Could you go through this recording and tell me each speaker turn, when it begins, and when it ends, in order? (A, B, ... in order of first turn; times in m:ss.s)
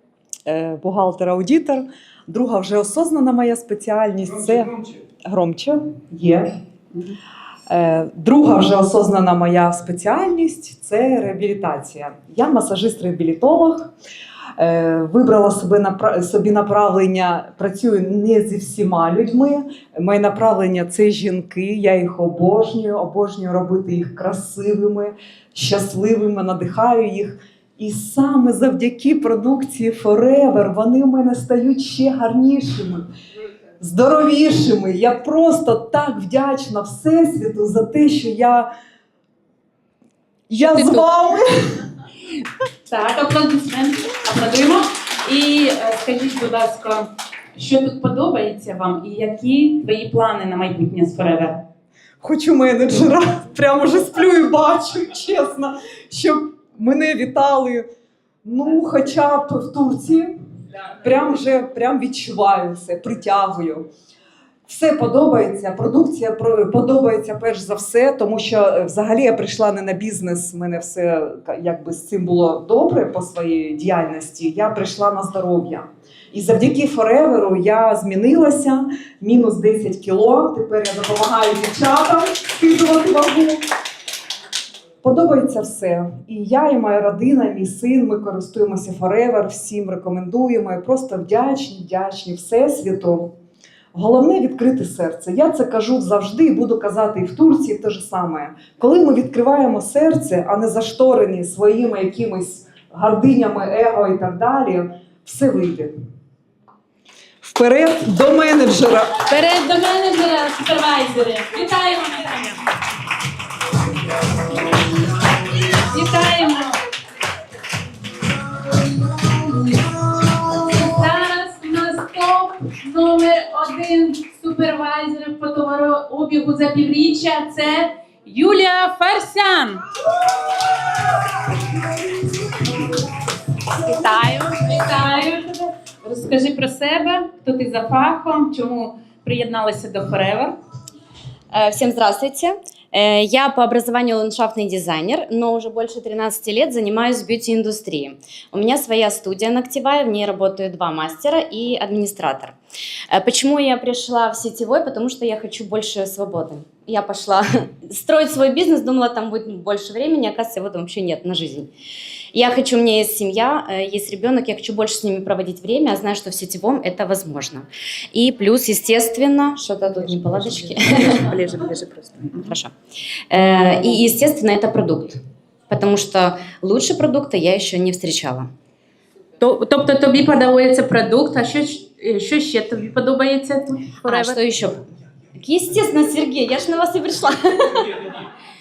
0:00.5-0:06.5 A
0:07.7-0:13.9 A
0:14.6-0:33.0 A
0:33.8-0:38.7 A
0:40.5-0:41.8 A
0:40.6-0:41.0 B
0:42.8-0:51.6 B
0:52.2-0:57.8 A
0:58.4-1:00.3 A
1:01.0-1:03.8 A
1:04.7-1:23.6 A
1:25.0-1:33.3 A
1:33.9-1:45.9 A
1:47.4-1:49.1 A
1:49.3-1:52.6 B
1:55.7-1:56.8 B
2:00.3-2:09.8 B
2:13.8-2:20.6 B
2:21.5-2:32.6 C
2:33.1-2:41.7 C
2:42.3-2:51.1 C
2:50.4-2:52.5 B
2:53.3-2:58.5 C
2:59.4-3:04.4 B
3:04.1-3:04.8 C
3:05.4-3:08.2 C